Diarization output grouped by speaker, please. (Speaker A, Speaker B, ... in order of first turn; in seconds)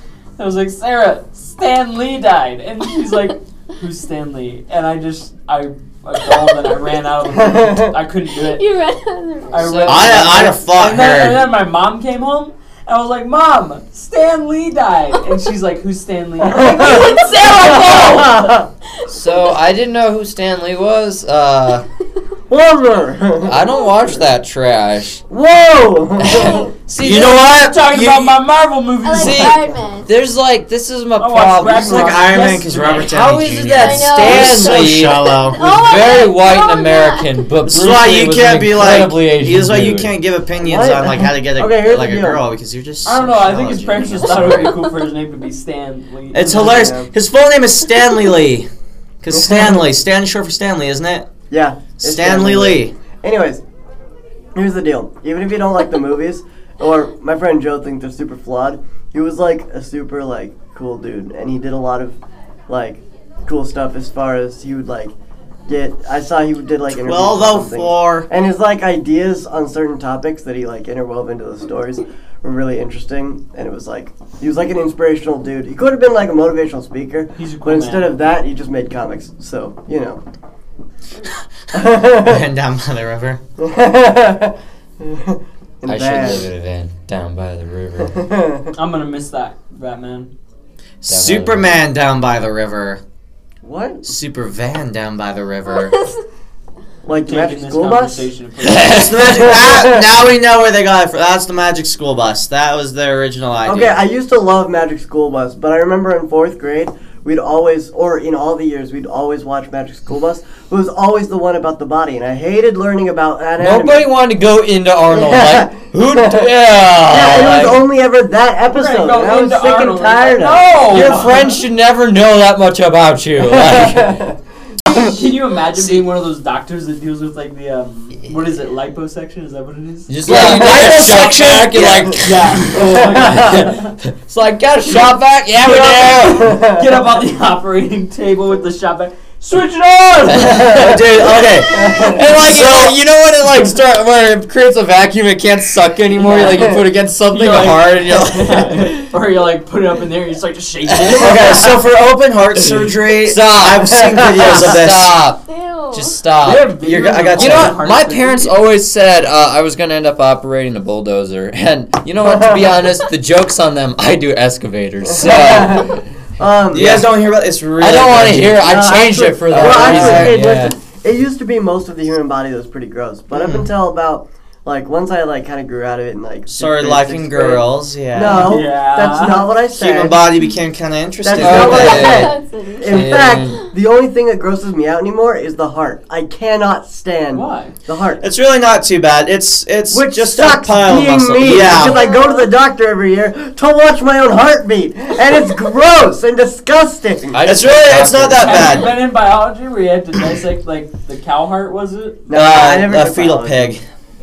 Speaker A: 0.4-8.7, 9.5-18.6, 27.0-29.7, 31.2-33.1, 43.0-46.8, 77.3-78.2, 88.8-90.3, 97.2-99.5, 118.7-121.6, 124.8-130.8, 132.2-133.9, 135.5-140.7, 146.1-146.8, 147.3-151.7, 156.4-158.6, 178.2-179.5, 187.3-187.8, 198.3-202.2
Speaker B: 7.3-7.9, 16.4-18.7, 22.5-24.3, 25.3-26.7, 40.6-42.4, 46.4-47.1, 49.3-49.9, 51.5-53.6, 54.5-65.1, 65.7-80.2, 81.7-82.4, 83.6-86.5, 88.0-88.7, 93.6-94.0, 97.0-98.3, 99.3-100.1, 103.6-114.1, 115.1-120.9, 123.4-124.3, 132.7-133.5, 136.4-137.0, 141.7-142.3, 162.2-162.8, 165.1-166.9, 168.6-180.4, 181.2-188.2, 189.9-197.4, 202.3-203.8
Speaker C: 8.4-10.3, 16.8-18.5, 29.0-30.1, 33.8-37.3, 155.5-156.3, 181.6-183.7, 191.6-192.5
Speaker D: 9.6-10.1, 19.1-21.8, 23.4-25.2, 26.2-27.3, 29.1-32.2, 33.0-40.1, 85.8-88.2, 91.1-91.8, 98.6-99.3, 113.6-117.8, 120.8-124.2, 130.1-136.5, 140.3-149.1, 150.9-151.3, 152.8-156.8, 157.3-166.0, 166.8-167.0, 167.8-170.8, 181.3-183.6, 197.3-198.9
Speaker E: 9.8-11.4, 27.0-28.3, 31.9-35.6, 37.6-44.8, 46.3-48.7, 49.2-51.2, 52.0-52.9, 66.9-68.3, 82.2-83.4, 91.0-93.0, 94.0-96.0, 98.8-104.0, 130.2-132.2, 140.5-141.7, 142.3-143.0, 151.1-155.2, 156.8-157.8, 166.7-168.6, 169.5-169.9, 173.3-173.7, 176.5-178.6, 179.7-182.2, 188.2-192.1, 197.4-198.9, 202.3-203.8